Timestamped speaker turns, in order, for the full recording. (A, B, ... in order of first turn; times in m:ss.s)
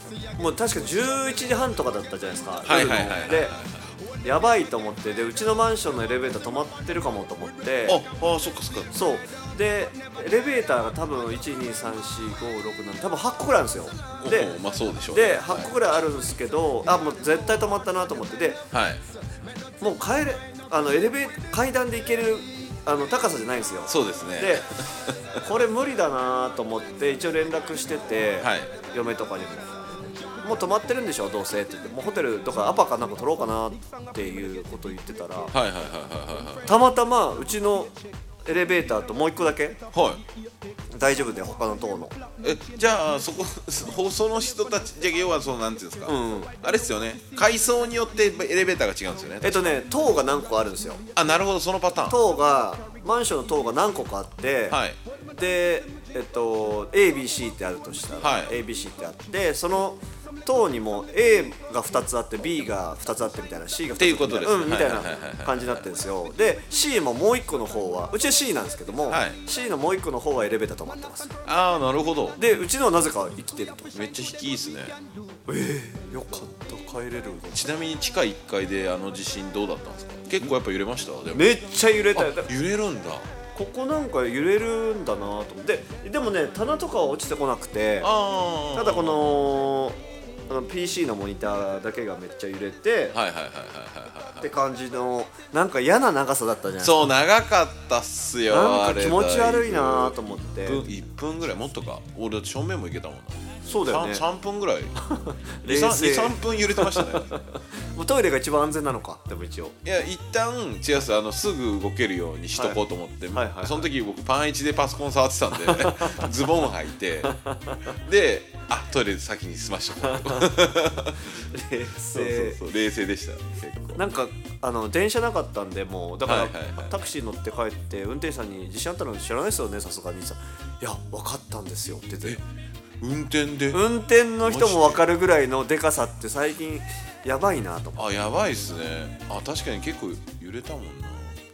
0:00.4-0:03.5 A
0:02.6-0:03.9 B
0:04.2-0:08.0 A
0:07.9-0:08.9 B
0:08.9-0:14.6 A
0:14.2-0:15.7 B
0:15.1-0:18.6 A
0:18.7-0:19.0 B
0:19.8-0:24.6 A
0:23.9-0:25.4 B
0:25.4-0:35.5 A
0:28.4-0:28.7 B
0:35.5-0:36.7 B
0:36.6-0:37.9 A
0:38.4-0:39.8 A
0:39.9-0:40.2 B
0:41.0-0:42.2 A
0:42.4-0:49.8 B
0:46.1-0:46.5 A
0:49.4-0:51.0 A
0:51.2-0:52.2 B
0:52.1-1:11.3 A
0:54.7-0:55.0 B
0:58.2-0:58.6 B
1:04.0-1:06.0 B
1:09.1-1:09.4 B
1:11.4-1:12.4 B
1:12.4-1:13.9 A
1:13.9-1:15.0 B
1:15.5-1:17.7 A
1:17.5-1:21.5 B
1:21.3-1:22.5 A
1:22.1-1:23.3 B
1:23.5-1:28.1 A
1:28.0-1:29.2 B
1:28.7-1:33.2 A
1:33.1-1:34.5 B
1:34.4-1:36.9 A
1:36.8-1:45.0 B
1:38.5-1:40.8 A
1:43.6-1:44.2 A
1:45.0-1:49.8 A
1:45.6-1:47.3 B
1:49.8-1:57.3 B
1:52.5-1:52.8 A
1:53.3-1:53.9 A
1:55.6-1:56.3 A
1:57.2-1:57.9 A
1:57.9-2:01.4 B
2:00.0-2:00.6 A
2:01.3-2:02.6 A
2:02.0-2:04.0 B
2:03.9-2:12.4 A
2:06.2-2:07.1 B
2:13.0-2:13.8 B
2:13.7-2:18.1 A
2:14.4-2:15.1 B
2:17.9-2:21.3 B